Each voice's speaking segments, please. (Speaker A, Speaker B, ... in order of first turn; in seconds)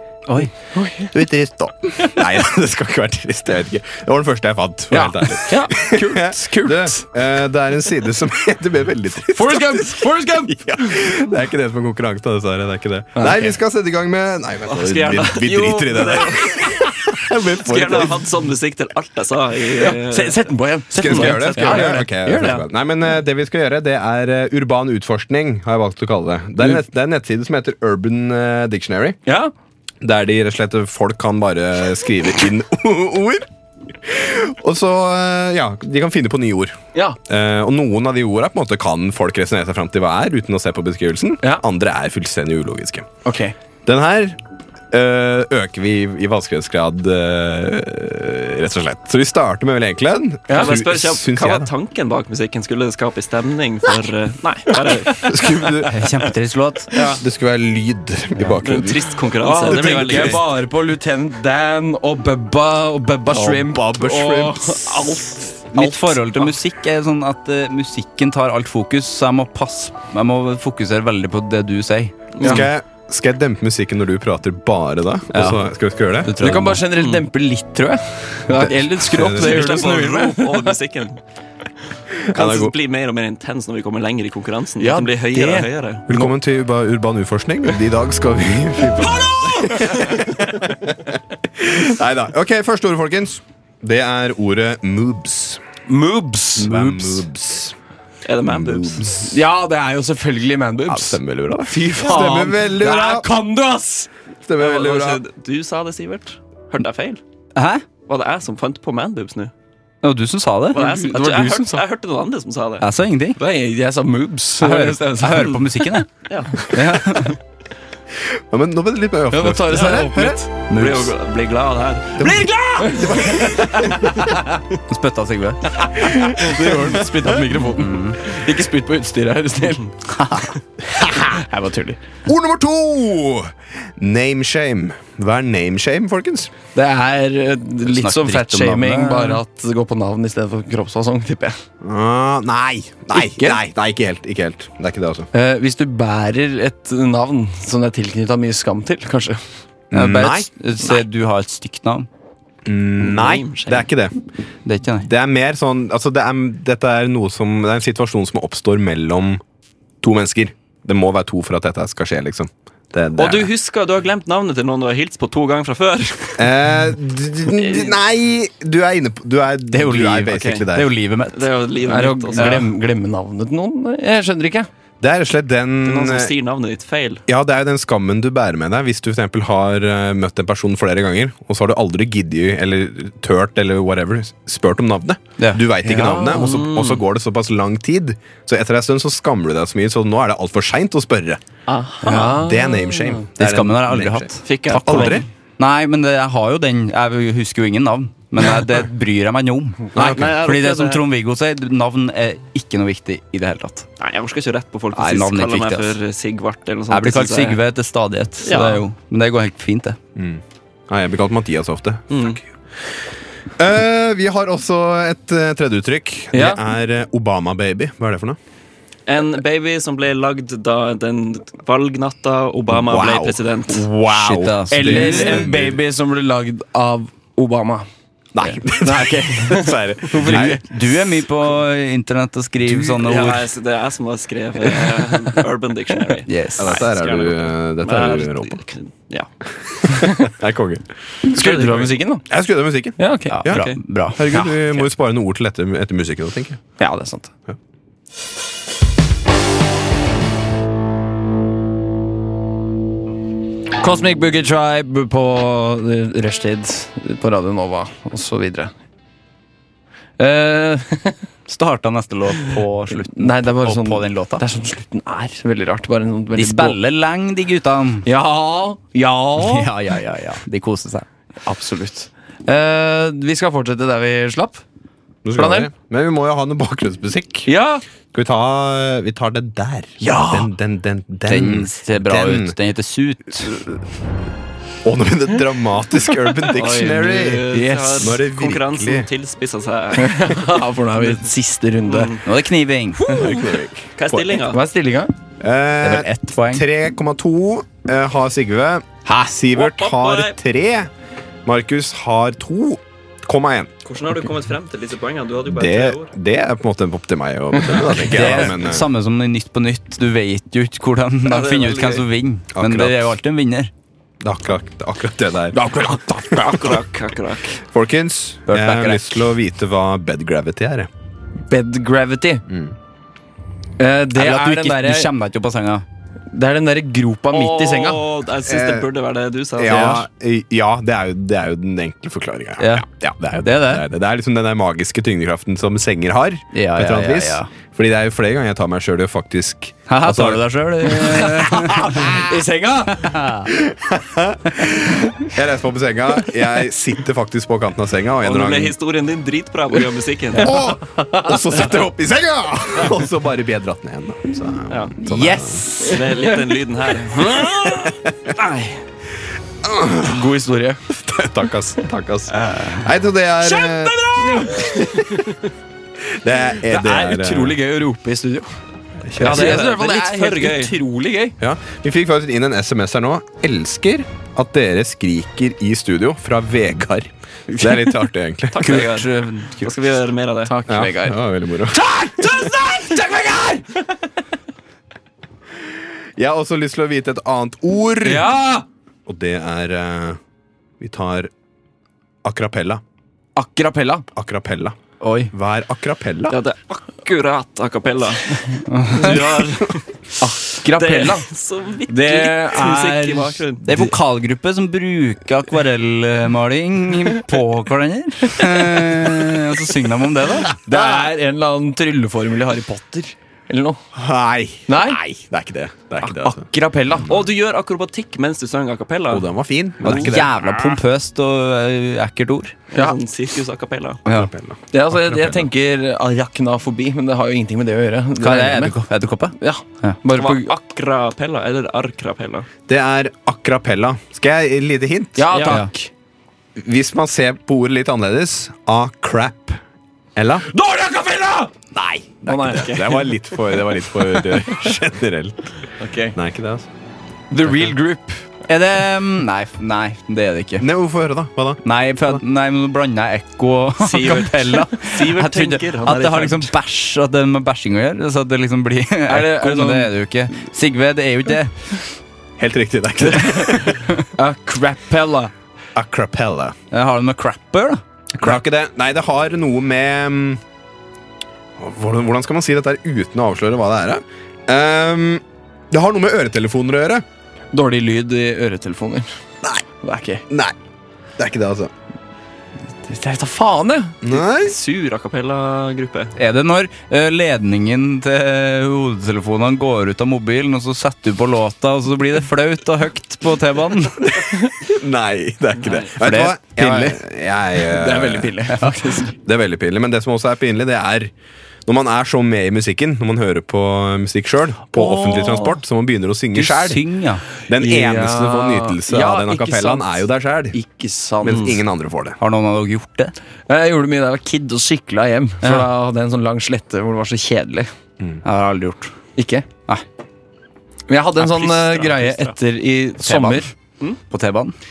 Speaker A: 0.7-1.2, 4.9-7.0, 9.3-11.0, 13.1-13.6, 19.7-22.6, 29.2-29.5, 43.2-43.5, 59.4-66.2, 76.4-80.7, 84.8-86.3, 89.1-90.3, 95.9-96.7, 99.1-104.1, 110.7-111.8, 113.4-115.7, 119.3-120.5, 122.8-124.6, 125.9-129.9, 131.0-132.0, 136.7-141.6, 143.2-143.6, 145.3-149.4, 171.9-174.7, 185.8-186.5, 192.0-193.1, 216.3-216.6, 224.7-227.8, 228.8-230.6, 239.9-240.3, 241.2-242.2, 243.0-243.4, 246.8-247.3, 253.8-258.7, 260.2-261.2, 262.9-266.8, 268.0-269.7, 271.4-274.6, 275.4-275.7, 277.4-277.8, 280.0-280.5, 287.5-288.2, 289.9-292.2, 293.1-293.3, 294.4-295.1, 315.5-316.8, 321.5-322.4, 323.8-325.1, 326.3-328.0, 340.8-343.2, 350.9-351.4, 360.0-360.8, 363.4-365.4, 366.6-368.6, 369.1-371.4, 377.5-378.0, 380.4-383.9, 388.0-388.6, 393.4-394.1, 400.2-401.3, 401.9-403.8, 410.6-413.8, 414.7-415.0, 416.0-417.1, 422.7-423.0, 424.7-428.8, 429.4-430.5, 435.2-435.9, 440.4-441.5, 442.3-443.1, 445.8-446.2, 447.3-448.2, 459.1-459.9, 464.1-465.3, 477.5-479.1, 479.8-480.2, 482.8-484.0, 497.6-499.1, 504.8-505.2, 507.5-510.0, 510.5-511.6, 513.5-517.7, 519.1-519.5, 520.9-523.5
Speaker B: 1.1-18.3, 20.9-29.2, 30.0-33.5, 34.0-43.1, 43.9-44.4, 44.9-51.7, 55.2-55.9, 57.2-59.1, 59.7-60.4, 63.4-65.0, 72.4-76.3, 79.0-79.6, 82.2-82.7, 86.1-95.6, 96.6-97.7, 98.5-99.3, 100.9-103.3, 104.5-105.2, 118.2-120.4, 122.2-124.2, 126.1-126.9, 132.2-136.5, 141.8-145.3, 149.9-150.5, 152.7-154.1, 155.0-159.4, 160.0-163.5, 166.4-170.9, 175.0-176.3, 177.3-191.4, 192.2-195.2, 199.9-200.4, 210.2-212.4, 213.6-218.4, 222.7-225.8, 228.3-230.6, 236.6-238.6, 239.8-240.9, 242.3-246.6, 275.2-277.5, 278.1-282.6, 284.8-289.1, 293.1-294.4, 295.4-300.9, 301.4-303.7, 305.5-308.9, 312.5-313.1, 314.2-315.9, 317.6-320.9, 322.5-322.7, 328.4-328.9, 329.6-340.5, 343.5-348.7, 350.4-355.7, 357.7-358.1, 359.6-360.2, 360.9-365.2, 366.1-367.6, 369.0-369.6, 371.4-379.0, 380.7-382.4, 386.2-388.3, 389.1-390.2, 390.8-391.3, 392.2-392.8, 394.1-394.7, 395.3-396.4, 410.7-411.0, 413.9-416.4, 419.1-420.3, 424.1-425.5, 432.7-435.4, 436.6-439.6, 440.1-440.5, 441.7-445.5, 446.1-446.7, 450.6-451.6, 462.4-463.9, 465.7-466.6, 468.1-470.4, 471.6-477.0, 480.3-480.5, 481.2-481.7, 484.0-484.6, 494.1-498.3, 499.2-501.1, 501.6-506.8, 507.5-510.6, 511.2-512.2
Speaker C: 14.7-16.9, 17.5-20.5, 21.1-21.9, 50.5-55.3, 56.9-57.2, 58.6-60.4, 72.4-72.7, 79.1-81.2, 82.3-86.0, 98.2-99.1, 104.5-107.2, 108.1-109.5, 110.7-112.9, 116.3-116.7, 120.7-123.5, 153.0-153.9, 163.2-166.5, 167.5-167.9, 170.4-170.6, 171.3-172.6, 175.8-177.2, 186.2-187.0, 191.7-192.4, 194.4-195.2, 199.9-201.0, 204.0-207.6, 208.4-208.8, 212.1-212.4, 219.1-223.9, 232.7-239.3, 241.3-241.9, 243.5-243.8, 286.5-291.2, 291.9-292.2, 293.1-293.4, 293.9-294.6, 299.5-300.4, 303.8-306.1, 311.2-312.1, 316.3-317.6, 327.3-330.0, 348.2-350.6, 354.7-354.9, 355.8-358.8, 369.2-370.8, 378.5-380.5, 396.3-399.9, 400.6-403.8, 417.0-420.8, 422.7-424.0, 430.1-432.5, 435.3-435.6, 453.8-456.5, 484.1-486.1, 495.6-495.9, 521.2-522.3
Speaker D: 55.9-57.0, 65.7-72.2, 75.3-75.6, 76.2-76.8, 96.6-97.2, 107.5-107.8, 110.0-110.9, 112.8-113.4, 114.6-117.4, 120.7-121.1, 124.9-125.9, 127.7-128.2, 130.1-130.6, 137.9-139.4, 149.9-152.1, 154.6-155.1, 169.7-172.7, 193.4-203.9, 204.9-205.9, 206.9-210.0, 224.1-225.5, 230.2-233.5, 236.2-236.8, 243.3-244.2, 261.5-264.4, 266.3-268.1, 269.4-271.1, 281.3-283.6, 292.2-293.1, 295.8-296.6, 308.1-313.7, 318.5-319.2, 324.1-325.8, 329.7-330.0, 333.4-333.8, 336.5-337.5, 339.9-342.1, 343.0-343.5, 355.0-356.0, 378.6-379.1, 395.0-395.3, 398.7-399.4, 403.6-410.6, 419.8-422.6, 424.1-424.3, 428.2-430.0, 448.5-450.6, 451.6-461.8, 466.7-467.8, 486.2-494.2, 496.0-497.0, 506.3-507.2, 512.2-513.1, 515.4-515.7, 518.2-518.9, 523.0-523.5, 524.1-524.5